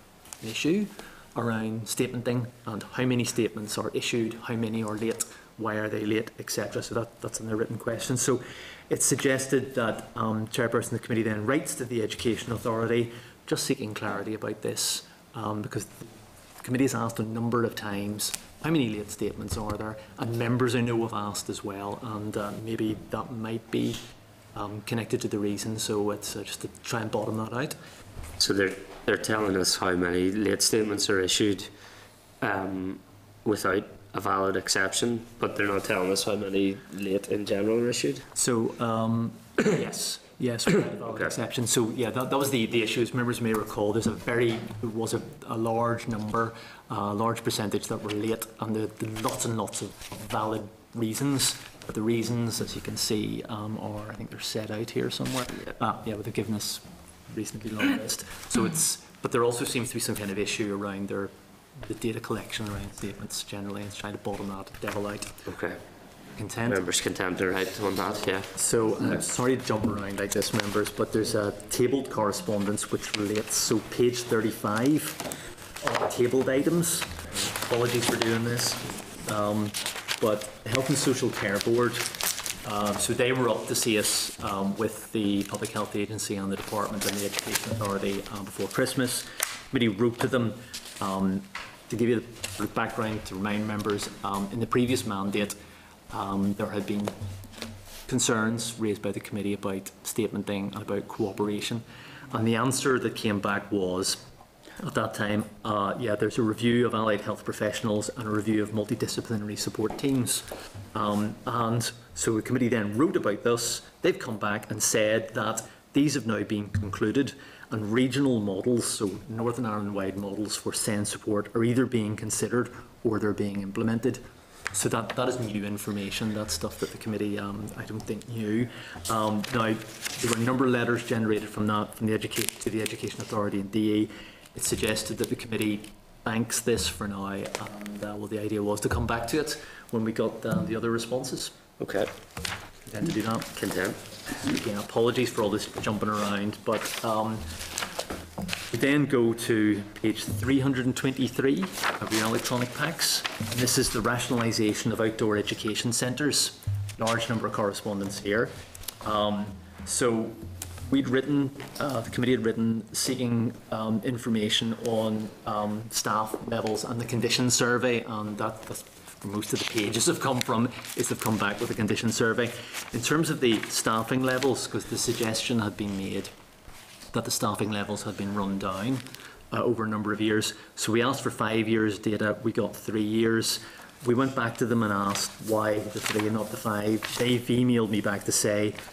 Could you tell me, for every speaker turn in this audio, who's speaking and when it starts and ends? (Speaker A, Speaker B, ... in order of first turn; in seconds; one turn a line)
Speaker A: 0.4-16.1
Speaker A: 16.6-24.0
Speaker A: 24.5-27.8
Speaker B: 28.4-31.7
Speaker B: 32.4-38.3
Speaker A: 38.4-65.4
Speaker B: 65.5-65.8
Speaker A: 66.4-66.8
Speaker B: 66.7-68.5
Speaker A: 68.5-75.2
Speaker A: 75.8-82.1
Speaker A: 82.6-95.6
Speaker A: 96.1-97.2
Speaker A: 98.1-104.2
Speaker A: 104.8-141.6
Speaker B: 141.8-142.1
Speaker A: 142.9-143.5
Speaker B: 143.6-144.0
Speaker A: 144.4-147.5
Speaker A: 148.7-176.3
Speaker A: 177.1-188.8